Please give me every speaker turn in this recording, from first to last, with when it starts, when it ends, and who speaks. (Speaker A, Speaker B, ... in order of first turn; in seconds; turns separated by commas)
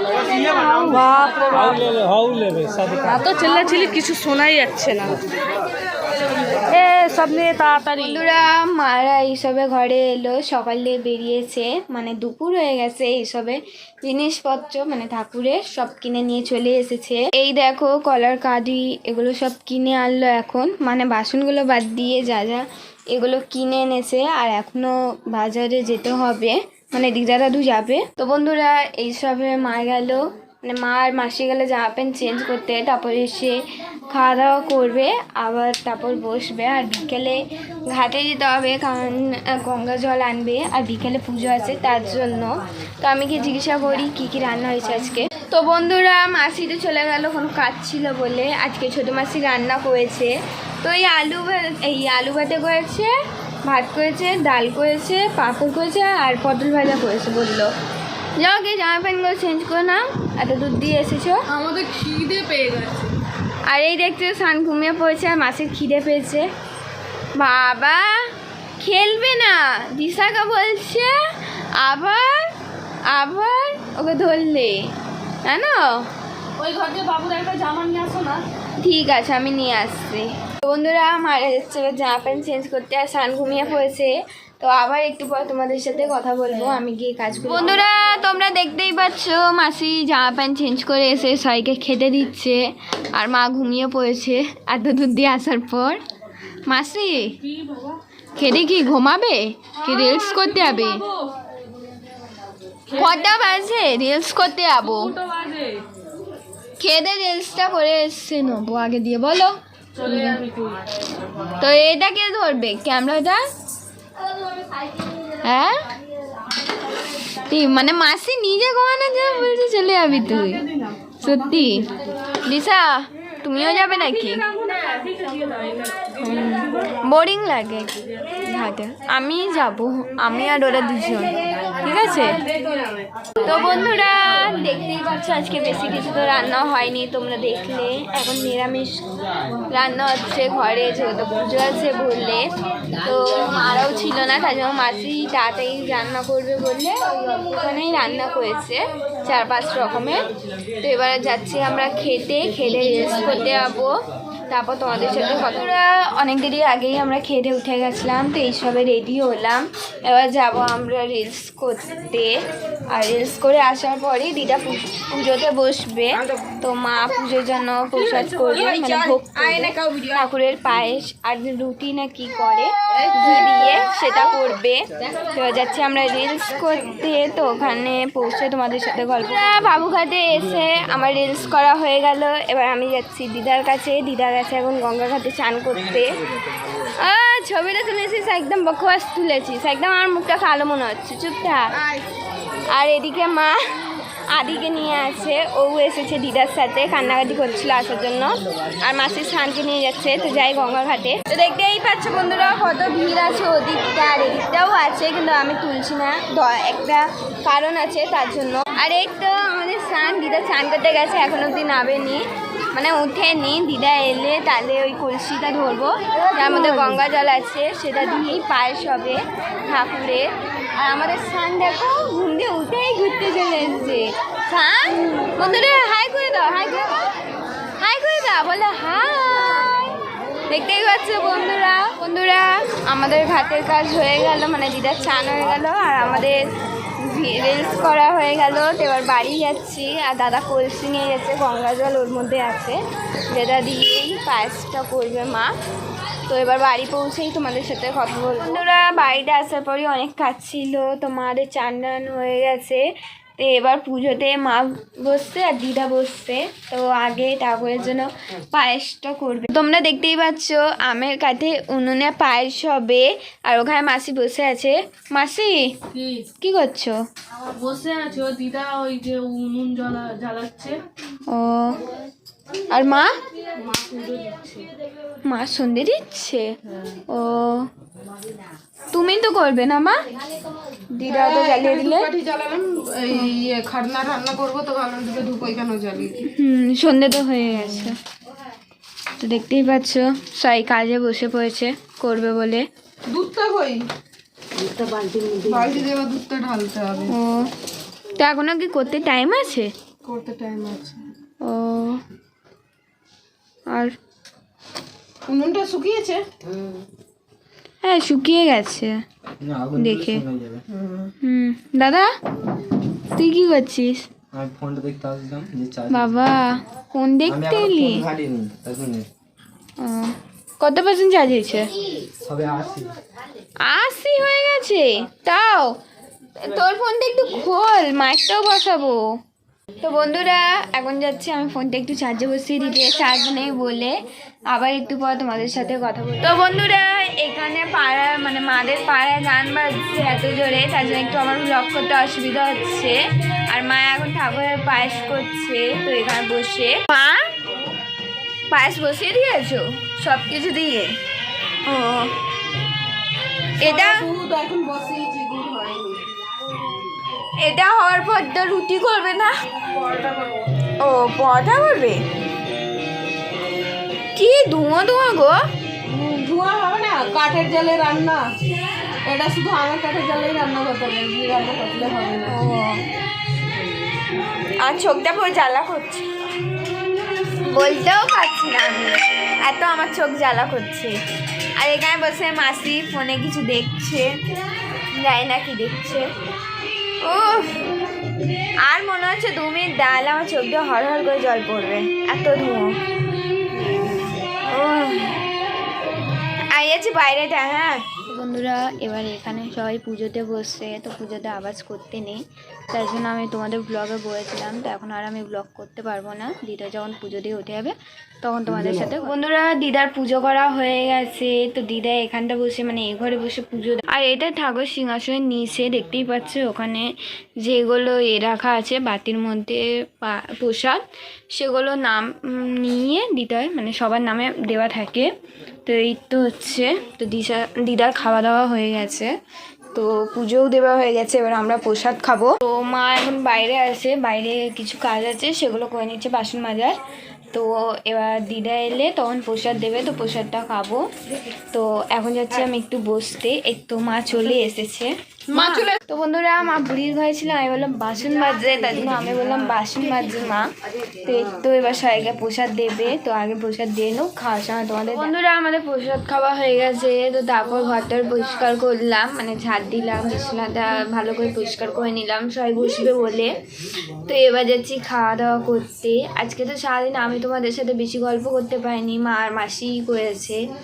Speaker A: 0.6-2.3, Speaker A: 2.9-5.2, Speaker A: 6.7-8.2, Speaker B: 8.0-53.1, Speaker B: 53.6-57.7, Speaker B: 58.4-61.5, Speaker C: 61.6-63.1, Speaker B: 63.7-66.5, Speaker B: 67.4-72.5, Speaker B: 73.1-74.9, Speaker B: 75.5-76.1, Speaker A: 76.6-78.5, Speaker B: 78.8-96.0, Speaker B: 96.7-97.4, Speaker A: 97.4-98.0, Speaker B: 98.4-101.0, Speaker A: 99.8-101.3, Speaker A: 102.9-103.5, Speaker B: 103.0-105.1, Speaker A: 104.8-105.8, Speaker B: 106.8-109.5, Speaker A: 109.9-111.5, Speaker B: 111.6-113.4, Speaker B: 115.4-115.9, Speaker B: 117.4-121.9, Speaker B: 122.5-124.5, Speaker A: 123.7-126.1, Speaker B: 126.2-132.4, Speaker B: 133.4-139.0, Speaker B: 139.7-150.3, Speaker B: 150.8-154.0, Speaker B: 154.5-162.3, Speaker B: 162.9-186.2, Speaker C: 168.0-170.2, Speaker C: 172.9-173.8, Speaker B: 187.0-191.7, Speaker C: 191.7-192.1, Speaker B: 192.7-193.6, Speaker B: 194.3-227.1, Speaker B: 227.8-229.8, Speaker B: 230.5-236.4, Speaker B: 237.0-245.5, Speaker B: 246.3-252.8, Speaker B: 253.4-265.8, Speaker A: 265.9-266.3, Speaker B: 266.4-267.1, Speaker A: 267.4-270.8, Speaker B: 271.3-271.8, Speaker B: 272.7-273.2, Speaker A: 273.6-274.7, Speaker B: 275.3-276.5, Speaker B: 277.1-277.7, Speaker B: 278.9-280.0, Speaker B: 280.9-282.1, Speaker C: 281.1-286.2, Speaker B: 286.2-288.0, Speaker B: 289.2-292.7, Speaker C: 293.1-293.8, Speaker C: 295.3-297.1, Speaker B: 297.1-297.5, Speaker B: 298.2-299.7, Speaker C: 300.0-301.1, Speaker B: 301.4-302.0, Speaker C: 305.3-306.2, Speaker B: 307.8-309.0, Speaker D: 309.4-310.6, Speaker B: 309.8-310.2, Speaker C: 310.7-311.1, Speaker B: 311.2-312.1, Speaker B: 313.1-314.1, Speaker D: 314.3-316.1, Speaker B: 315.9-318.1, Speaker D: 317.3-319.1, Speaker B: 319.8-321.7, Speaker D: 322.2-323.0, Speaker B: 323.6-325.8, Speaker B: 326.4-329.1, Speaker B: 329.8-334.0, Speaker B: 334.5-347.3, Speaker B: 348.5-351.0, Speaker B: 351.6-352.1, Speaker B: 353.6-354.1, Speaker C: 353.6-356.1, Speaker B: 357.4-359.4, Speaker C: 359.7-360.5, Speaker B: 360.8-362.0, Speaker B: 364.1-365.4, Speaker C: 365.8-368.3, Speaker C: 369.1-372.4, Speaker B: 372.3-372.9, Speaker B: 374.6-376.1, Speaker B: 377.4-381.0, Speaker B: 381.6-384.1, Speaker B: 384.9-386.1, Speaker B: 387.0-387.6, Speaker B: 388.6-392.8, Speaker B: 394.5-395.2, Speaker B: 396.5-425.1, Speaker B: 425.7-429.1, Speaker B: 429.7-436.8, Speaker B: 437.3-440.9, Speaker B: 441.5-470.4